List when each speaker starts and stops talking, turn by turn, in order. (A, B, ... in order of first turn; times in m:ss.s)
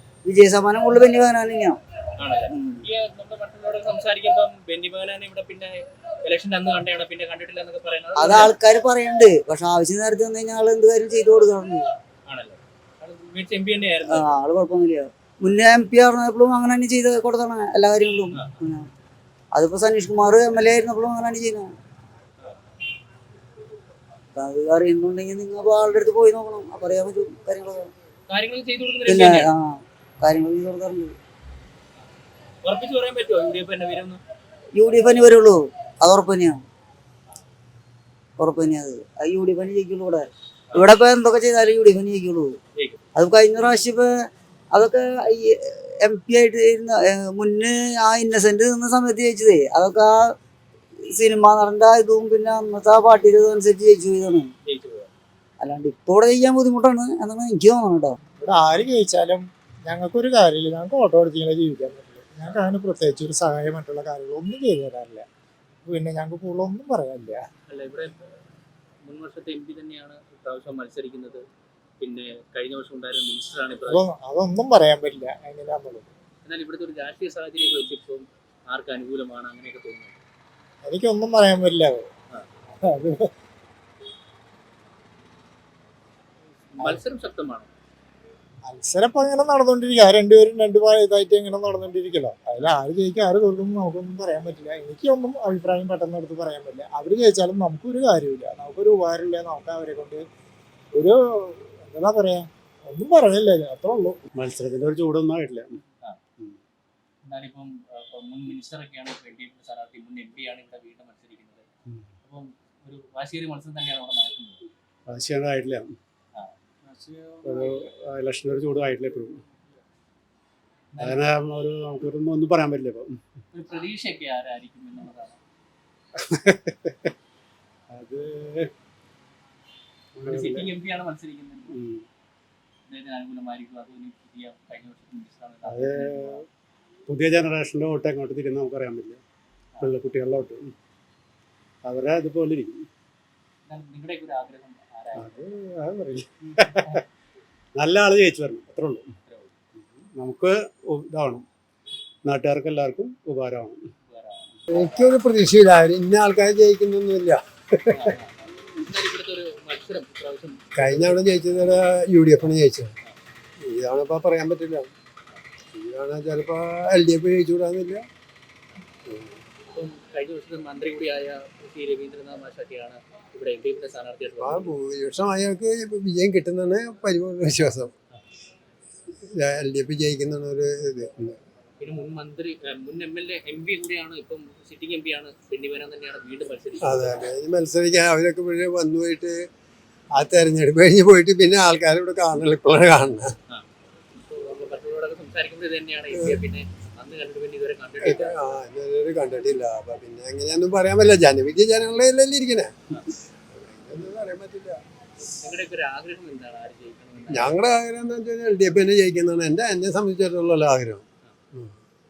0:00.2-0:01.8 A
0:02.2-0:08.5 B
0:02.5-0:02.8 A
0:08.2-0:11.8 A
0:12.3-0:14.3 B
0:14.1-0:18.9 A
0:19.5-0:21.7 A
0:24.4-0:27.9 A
0:28.3-0:29.5 B
0:29.1-0:31.1 A
0:32.6-0:34.2 B
0:34.7-0:36.6 A
0:38.4-0:42.6 A
0:43.2-0:44.1 A
0:44.7-0:50.4 A
0:51.1-0:54.5 A
0:54.7-0:55.1 B
0:55.6-0:58.2 A
0:58.4-1:05.3 C
1:05.9-1:07.4 C
1:07.7-1:08.3 B
1:09.1-1:11.4 B
1:12.0-1:14.0 B
1:13.9-1:16.1 C
1:16.5-1:20.2 B
1:20.8-1:22.1 C
1:22.8-1:23.3 C
1:26.8-1:27.7 B
1:28.7-1:40.2 C
1:41.0-1:44.2 C
1:44.4-1:45.7 D
1:47.3-1:51.7 B
1:52.2-1:54.7 B
1:55.1-1:55.9 D
1:56.4-1:57.9 B
1:57.5-1:59.3 D
2:00.9-2:01.4 B
2:01.0-2:03.1 D
2:03.5-2:05.4 B
2:06.3-2:06.9 D
2:08.0-2:08.6 D
2:10.2-2:10.7 D
2:10.2-2:11.8 B
2:12.9-2:16.4 B
2:15.7-2:16.3 D
2:17.1-2:19.2 D
2:19.8-2:20.6 D
2:21.9-2:22.7 D
2:23.7-2:25.4 B
2:25.3-2:26.7 D
2:27.8-2:29.0 D
2:29.3-2:29.5 B
2:30.2-2:31.4 D
2:32.3-2:33.8 D
2:34.1-2:34.5 B
2:34.7-2:37.8 E
2:37.9-2:41.4 B
2:40.8-2:42.9 E
2:43.6-2:44.9 E
2:45.7-2:48.1 E
2:49.1-2:49.4 E
2:49.7-2:54.7 B
2:54.4-2:57.9 E
2:59.2-3:01.4 E
3:01.8-3:07.2 B
3:06.8-3:09.4 E
3:10.2-3:13.3 E
3:14.2-3:18.4 B
3:18.0-3:22.7 E
3:23.5-3:24.8 E
3:25.2-3:27.6 B
3:27.3-3:31.8 E